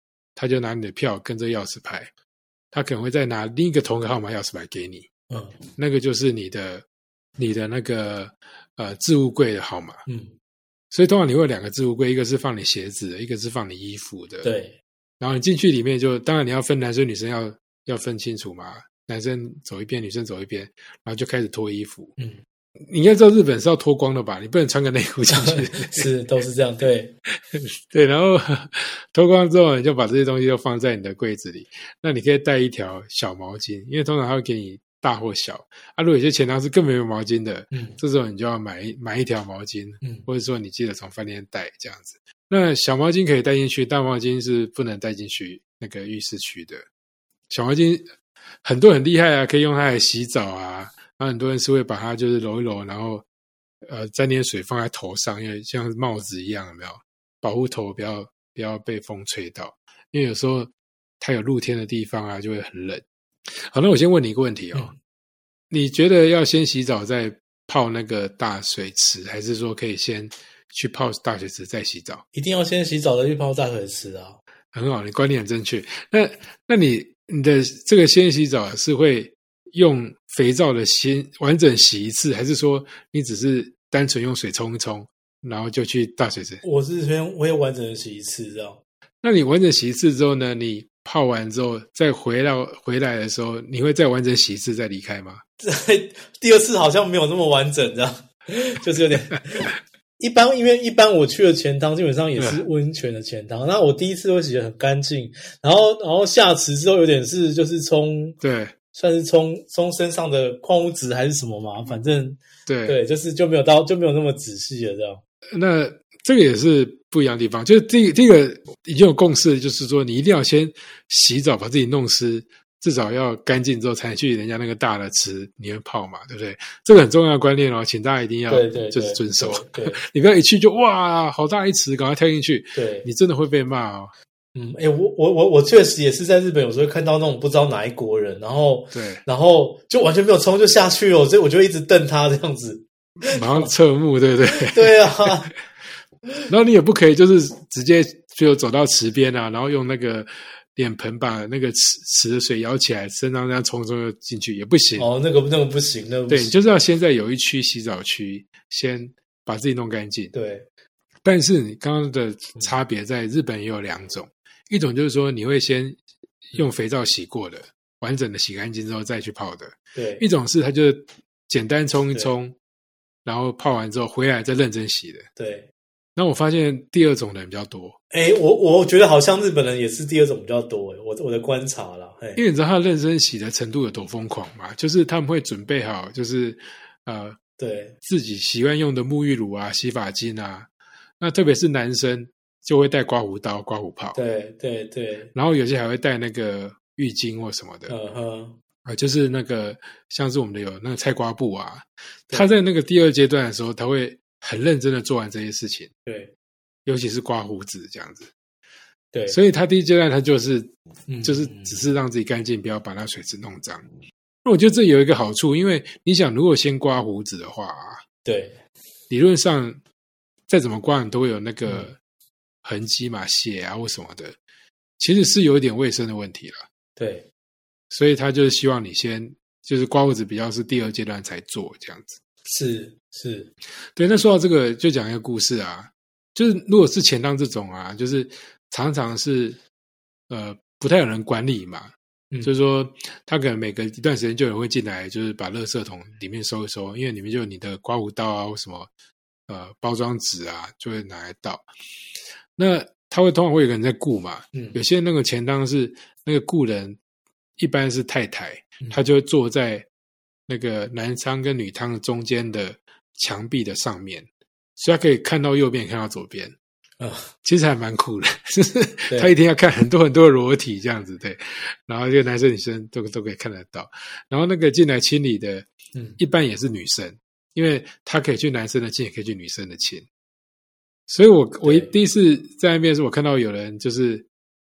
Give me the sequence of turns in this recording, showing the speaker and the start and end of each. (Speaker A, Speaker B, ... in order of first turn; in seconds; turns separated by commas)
Speaker A: 0.3-2.1, Speaker A: 2.7-5.1, Speaker B: 5.3-5.6, Speaker A: 5.8-6.8, Speaker A: 7.4-10.0, Speaker B: 10.1-10.3, Speaker A: 10.9-14.5, Speaker B: 14.4-14.8, Speaker A: 15.2-22.1, Speaker A: 22.9-26.1, Speaker B: 25.3-27.1, Speaker A: 27.5-46.8, Speaker B: 37.7-38.0, Speaker A: 47.5-53.2, Speaker A: 53.8-63.0, Speaker A: 63.6-64.9, Speaker A: 65.7-72.2, Speaker B: 72.3-74.4, Speaker A: 74.7-86.6, Speaker B: 86.6-88.8, Speaker A: 89.2-95.4, Speaker B: 95.6-108.4, Speaker A: 102.4-102.6, Speaker A: 108.4-108.7, Speaker B: 108.9-115.2, Speaker A: 112.7-113.0, Speaker A: 115.5-134.1, Speaker B: 128.5-130.0, Speaker B: 132.7-133.1, Speaker B: 134.5-143.7, Speaker A: 138.9-139.2, Speaker A: 143.3-145.3, Speaker B: 144.5-145.5, Speaker A: 146.5-155.1, Speaker B: 154.9-156.6, Speaker A: 156.3-160.3, Speaker B: 160.3-160.7, Speaker A: 161.2-166.0, Speaker A: 166.5-172.6, Speaker B: 169.9-170.2, Speaker A: 173.2-175.3, Speaker B: 175.3-175.7, Speaker A: 176.2-178.0, Speaker B: 178.1-182.4, Speaker A: 182.3-187.4, Speaker B: 187.6-187.9, Speaker A: 188.0-190.7, Speaker A: 191.2-194.2, Speaker B: 194.1-195.3, Speaker A: 195.3-197.9, Speaker B: 197.9-198.6, Speaker A: 198.8-205.9, Speaker B: 206.1-206.3, Speaker A: 206.8-208.3, Speaker B: 209.1-209.4, Speaker A: 209.3-213.8, Speaker B: 211.1-211.8, Speaker A: 214.4-218.0, Speaker B: 218.2-218.6, Speaker A: 219.1-219.8, Speaker A: 220.5-222.0, Speaker B: 221.6-221.9, Speaker A: 222.6-224.3, Speaker A: 225.0-226.6, Speaker B: 227.0-227.3, Speaker A: 227.9-232.2, Speaker B: 232.4-233.5, Speaker A: 233.9-239.6, Speaker A: 240.3-248.9, Speaker A: 249.5-251.7, Speaker A: 252.6-257.0, Speaker B: 254.5-254.8, Speaker A: 257.6-259.9, Speaker A: 260.5-266.5, Speaker B: 267.0-267.3, Speaker A: 267.4-275.7, Speaker A: 276.2-280.0, Speaker A: 281.1-284.3, Speaker B: 281.6-281.9